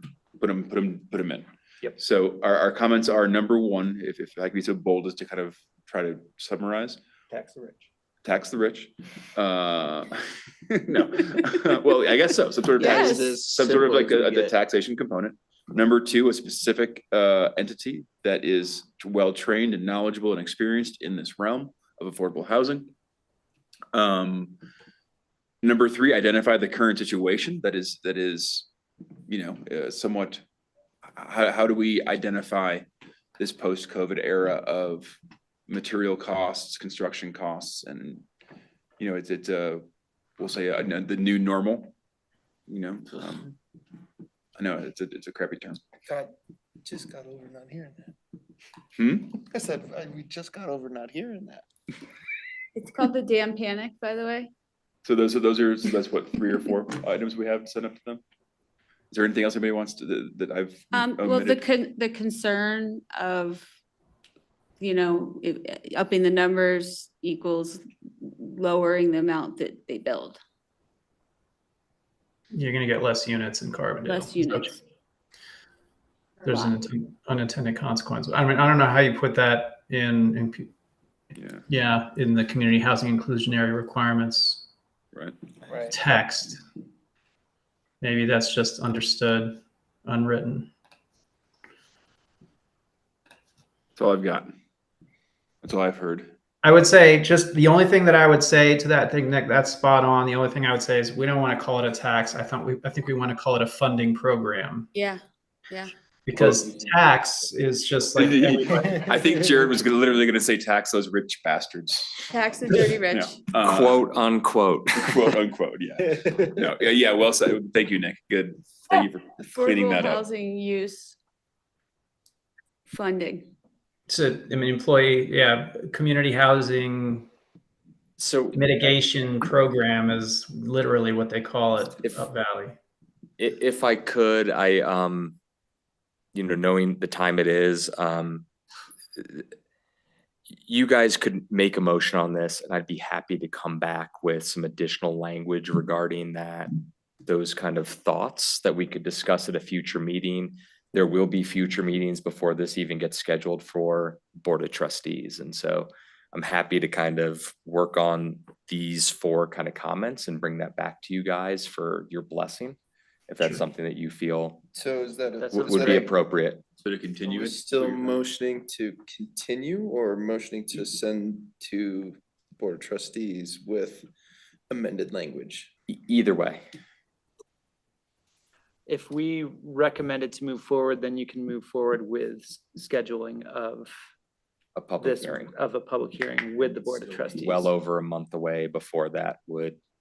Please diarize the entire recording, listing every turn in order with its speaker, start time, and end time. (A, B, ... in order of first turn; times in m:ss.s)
0:00.4-0:07.0 A
0:07.3-0:07.9 B
0:08.2-0:10.2 A
0:10.7-0:22.9 A
0:12.8-0:14.6 C
0:12.8-0:13.3 D
0:23.9-0:24.6 A
0:25.6-0:28.7 A
0:29.3-0:30.4 A
0:31.2-0:32.9 A
0:33.4-0:38.2 A
0:39.0-0:39.8 A
0:40.4-0:41.9 A
0:42.7-0:43.5 A
0:44.6-0:45.8 A
0:46.0-0:46.3 C
0:46.8-0:48.1 C
0:49.0-0:49.4 A
0:49.3-0:51.6 C
0:52.8-0:54.5 D
0:55.0-0:58.2 A
0:59.1-1:01.6 A
1:00.9-1:03.7 D
1:04.8-1:10.4 D
1:12.5-1:14.7 E
1:14.0-1:14.8 D
1:16.4-1:20.7 E
1:21.4-1:21.6 A
1:21.7-1:24.6 E
1:25.7-1:25.9 C
1:25.9-1:26.6 E
1:28.0-1:30.7 E
1:34.0-1:34.5 A
1:35.6-1:36.3 A
1:36.6-1:44.9 E
1:44.9-1:45.9 D
1:46.2-1:49.1 E
1:48.2-1:52.3 A
1:52.3-1:53.4 D
1:53.1-1:54.0 A
1:53.6-1:55.3 F
1:55.0-2:00.2 A
1:59.5-2:01.2 D
2:02.9-2:03.5 D
2:04.1-2:07.3 E
2:08.2-2:08.9 F
2:08.5-2:12.7 E
2:13.4-2:15.4 F
2:16.3-2:18.4 F
2:19.2-2:19.4 F
2:20.5-2:26.7 F
2:27.2-2:42.8 F
2:43.3-2:44.6 F
2:44.7-2:46.1 C
2:45.4-2:46.1 B
2:45.5-2:46.6 F
2:46.8-2:48.2 A
2:47.2-2:54.1 C
2:54.7-2:55.7 C
2:55.9-2:56.6 F
2:58.8-3:04.0 B
3:04.8-3:05.5 F
3:05.0-3:07.7 B
3:07.4-3:09.8 F